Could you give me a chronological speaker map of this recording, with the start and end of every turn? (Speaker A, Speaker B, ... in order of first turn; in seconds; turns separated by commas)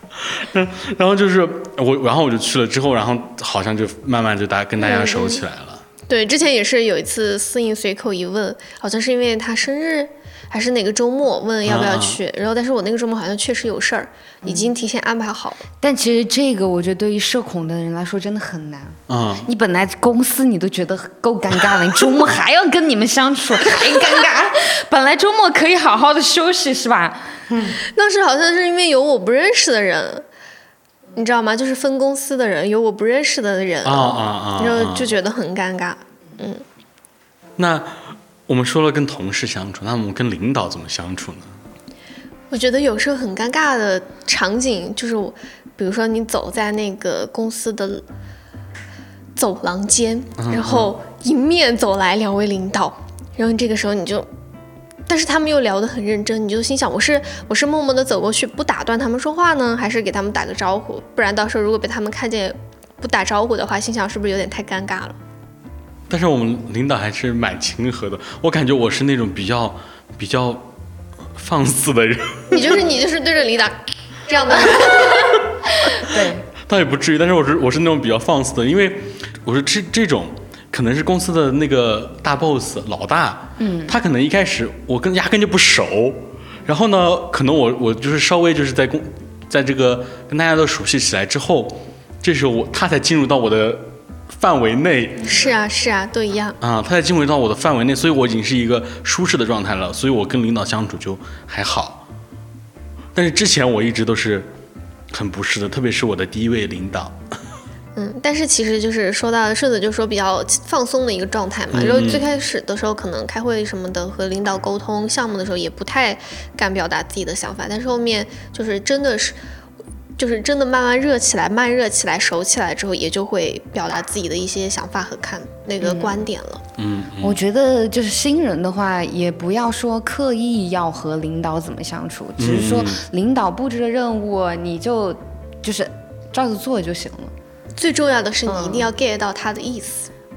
Speaker A: 0.2-5.8, Speaker B: 4.8-5.4, Speaker B: 6.1-15.6, Speaker A: 11.7-12.2, Speaker C: 14.4-14.7, Speaker C: 15.8-27.4, Speaker A: 19.1-19.5, Speaker B: 27.9-30.3, Speaker B: 31.1-36.6, Speaker A: 33.8-35.1, Speaker A: 37.6-41.5, Speaker B: 42.5-48.0, Speaker B: 49.4-54.3, Speaker A: 50.4-50.9, Speaker B: 55.1-65.2, Speaker A: 66.1-70.7, Speaker A: 71.3-72.9, Speaker B: 72.5-75.4, Speaker C: 75.9-76.5, Speaker A: 76.6-95.4, Speaker C: 83.6-84.0, Speaker B: 95.2-96.6, Speaker A: 96.6-102.0, Speaker A: 103.2-104.5, Speaker A: 105.1-107.2, Speaker B: 108.0-119.4, Speaker A: 111.7-112.2, Speaker B: 120.2-126.6, Speaker C: 125.8-126.3, Speaker A: 126.8-127.4, Speaker C: 127.2-137.3, Speaker A: 132.4-133.0, Speaker B: 137.8-140.1, Speaker C: 138.5-138.9